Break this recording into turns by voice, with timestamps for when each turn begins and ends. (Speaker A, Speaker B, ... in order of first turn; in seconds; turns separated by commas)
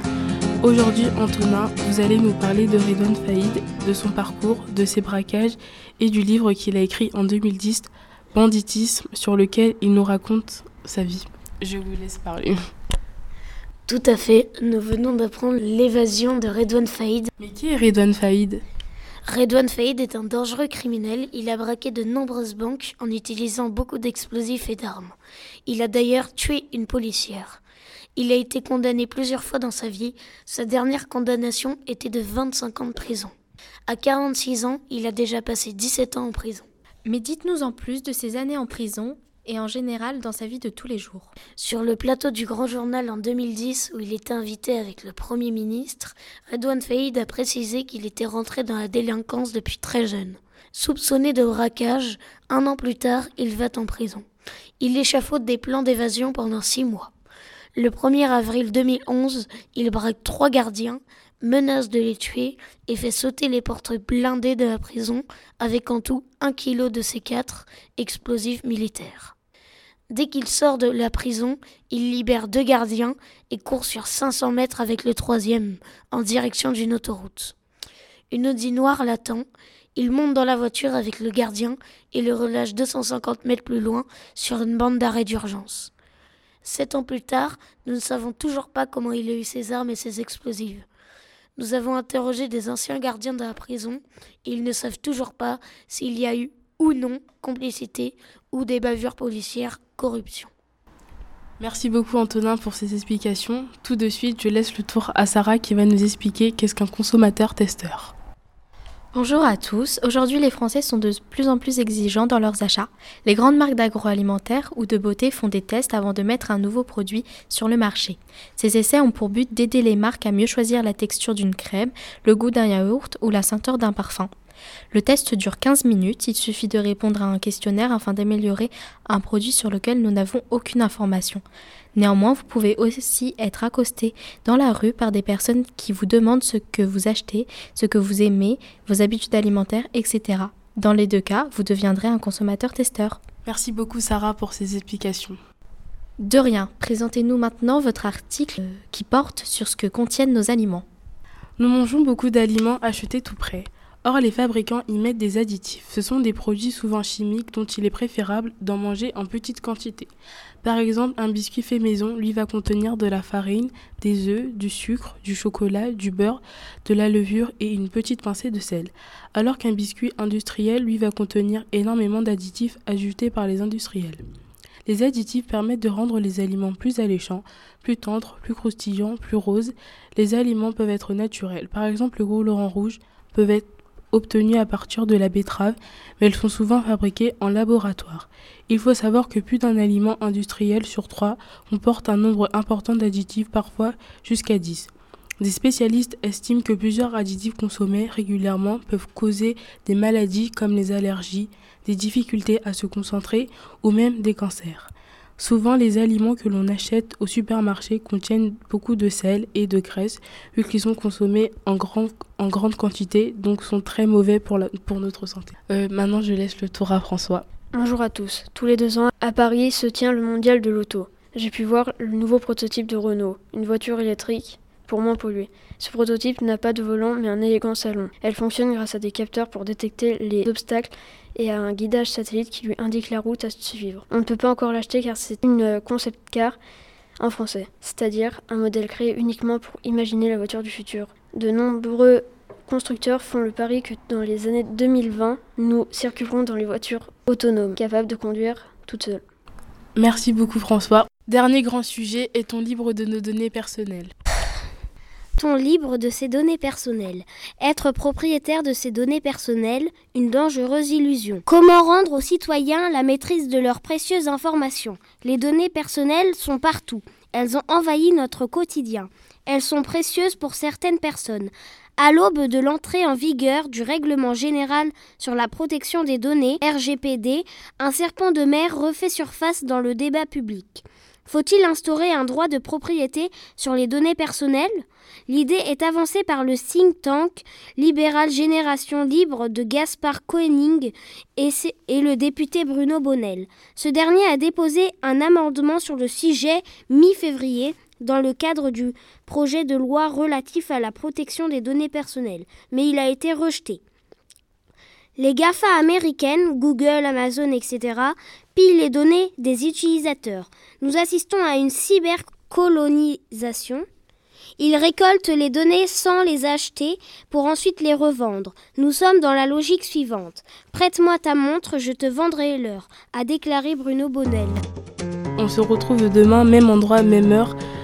Speaker A: 0.6-12.6, Speaker B: 13.9-17.3, Speaker A: 17.4-18.6, Speaker B: 19.2-27.6, Speaker B: 28.1-33.3, Speaker B: 33.9-36.7, Speaker C: 37.0-41.3, Speaker B: 41.6-54.2, Speaker B: 54.8-57.1, Speaker B: 57.7-69.3, Speaker B: 70.1-77.5, Speaker B: 78.3-85.9, Speaker B: 86.6-90.8, Speaker B: 91.6-100.5, Speaker A: 101.6-108.1, Speaker C: 109.1-124.3, Speaker C: 124.9-131.4, Speaker C: 131.9-143.2, Speaker A: 143.4-145.4, Speaker C: 146.2-150.8, Speaker A: 151.6-160.1, Speaker A: 160.6-174.2, Speaker A: 174.8-217.4, Speaker D: 217.7-236.6, Speaker D: 237.2-249.2, Speaker A: 249.9-254.1, Speaker E: 255.4-303.8, Speaker E: 305.2-313.8, Speaker E: 314.6-324.6, Speaker A: 325.4-327.6